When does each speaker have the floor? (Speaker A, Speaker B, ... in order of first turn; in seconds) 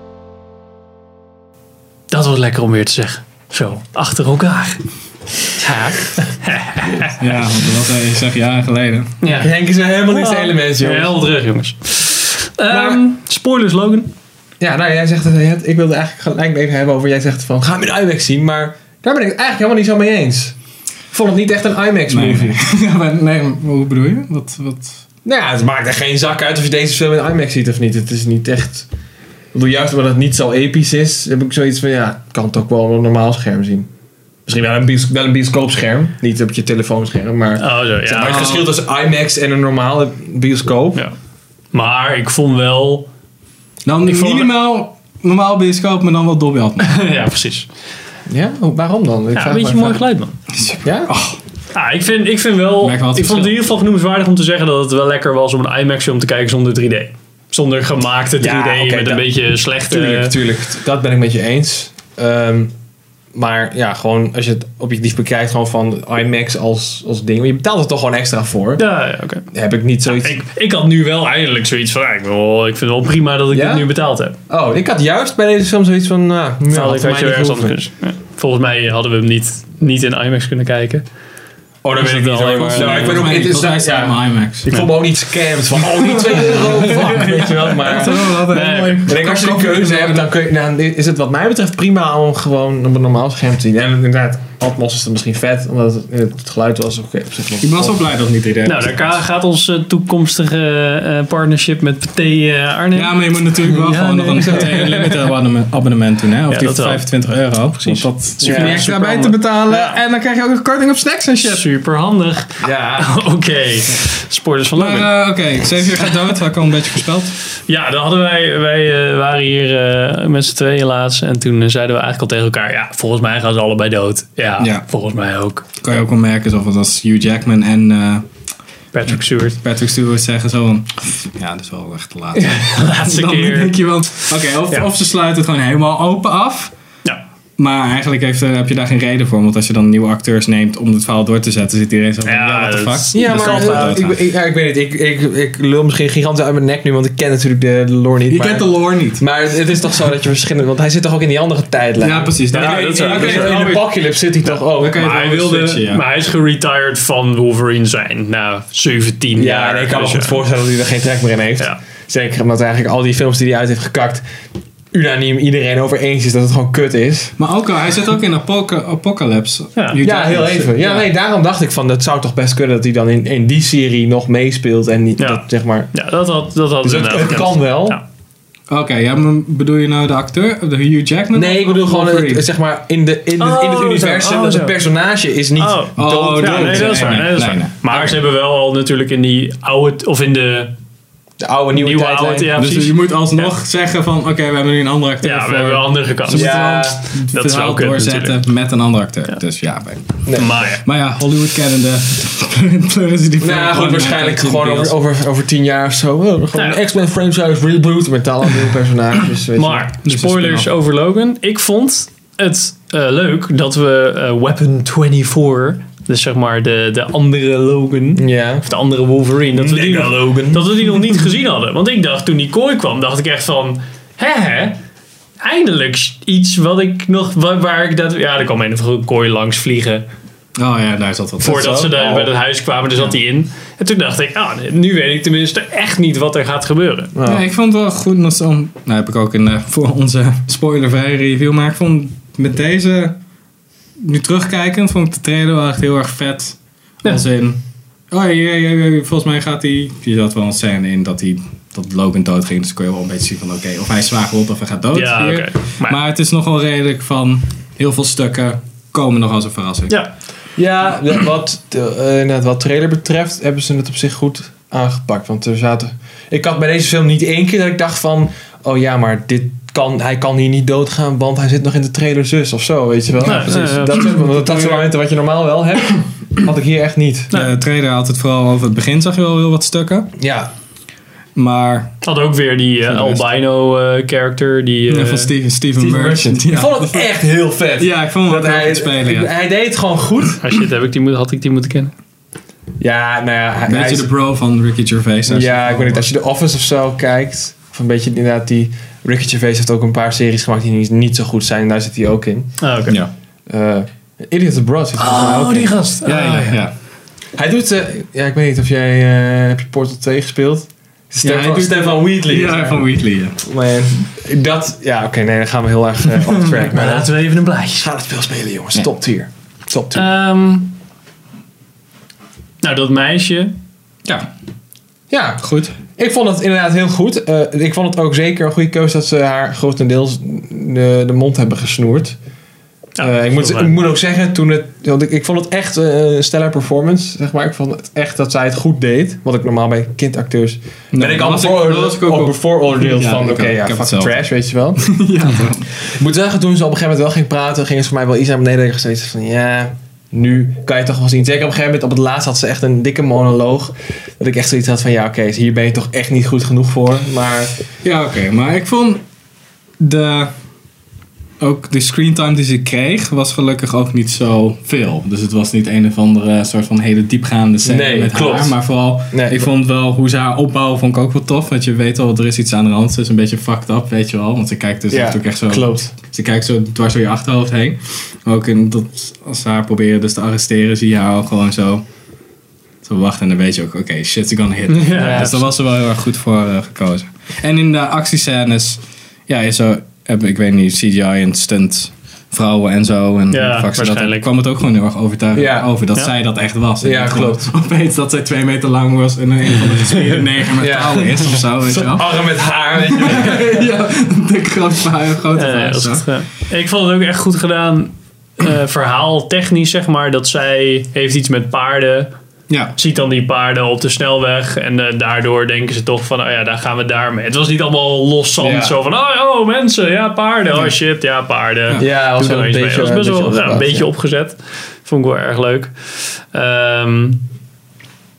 Speaker A: 2.1-4.8, 5.5-7.3, 9.2-9.5, 10.0-14.1, 37.6-38.7, 41.7-43.1, 44.0-44.5, 46.8-47.7, 49.3-50.3, 51.7-60.4, 68.8-69.5, 70.0-74.4, 76.7-81.0, 82.0-83.4, 88.1-89.1, 98.7-105.2, 106.5-110.0, 111.4-115.1, 117.7-125.9, 128.9-129.6, 132.3-133.8, 142.2-144.0, 152.5-153.7, 154.8-160.4, 169.8-170.0, 175.2-178.0, 183.4-184.8, 185.6-190.7, 191.7-193.5, 195.2-198.4, 200.3-200.8, 206.5-206.8, 209.6-224.8, 225.4-230.1, 231.4-237.1, 254.9-256.0, 273.2-274.9, 282.0-285.3, 290.4-291.9, 302.6-303.0, 305.0-306.6, 316.5-317.9, 319.9-320.8, 322.6-323.5, 333.0-333.7, 384.7-385.4, 393.3-394.3, 405.4-412.1, 412.8-425.7, 426.3-427.2
Speaker B: 7.2-9.1, 22.1-25.0, 38.3-38.5, 43.9-46.9, 50.5-51.4, 52.8-53.6, 82.5-84.9, 85.8-90.3, 97.6-99.2, 102.9-111.7, 114.8-117.3, 124.6-124.8, 125.8-128.3, 129.6-136.7, 137.6-144.2, 148.3-149.2, 152.0-153.9, 154.7-156.1, 167.4-171.1, 178.7-182.4, 186.0-187.8, 192.6-200.3, 200.8-204.9, 210.0-210.7, 230.6-231.7, 237.2-243.2, 244.0-247.6, 248.1-260.0, 273.2-273.5, 277.3-280.1, 281.4-282.0, 282.9-283.2, 284.9-287.1, 287.8-289.3, 293.7-296.1, 306.1-306.7, 311.2-313.4, 325.4-325.8, 340.9-344.3, 344.8-345.8, 357.8-359.0, 359.8-360.3, 361.4-381.8, 382.8-402.3, 402.8-406.1, 412.5-412.8
Speaker C: 9.4-11.2, 12.8-13.0, 14.6-20.6, 21.1-22.6, 25.2-28.9, 29.5-33.9, 34.5-41.0, 48.3-50.0, 50.9-51.1, 58.4-59.3, 59.9-62.7, 63.3-68.8, 69.5-70.3, 73.5-73.9, 74.5-77.8, 81.8-88.3, 89.1-98.0, 108.4-108.9, 112.6-113.1, 143.1-155.5, 159.3-164.2, 164.9-167.3, 170.0-175.9, 176.8-178.0, 181.3-187.2, 191.4-192.5, 196.3-197.0, 200.3-200.6, 203.4-209.9, 218.2-218.7, 219.6-220.6, 231.5-232.3, 237.2-237.4, 260.6-277.3, 280.2-280.5, 285.8-290.4, 292.8-294.1, 295.3-302.5, 303.5-305.8, 307.4-312.8, 313.4-317.1, 317.8-320.0, 325.1-332.2, 333.0-344.8, 345.9-357.6, 367.6-368.6, 369.1-369.4, 374.9-375.9, 385.0-385.4, 395.4-395.7, 396.8-397.5, 400.6-401.0, 401.7-403.5, 418.4-418.8, 421.8-423.9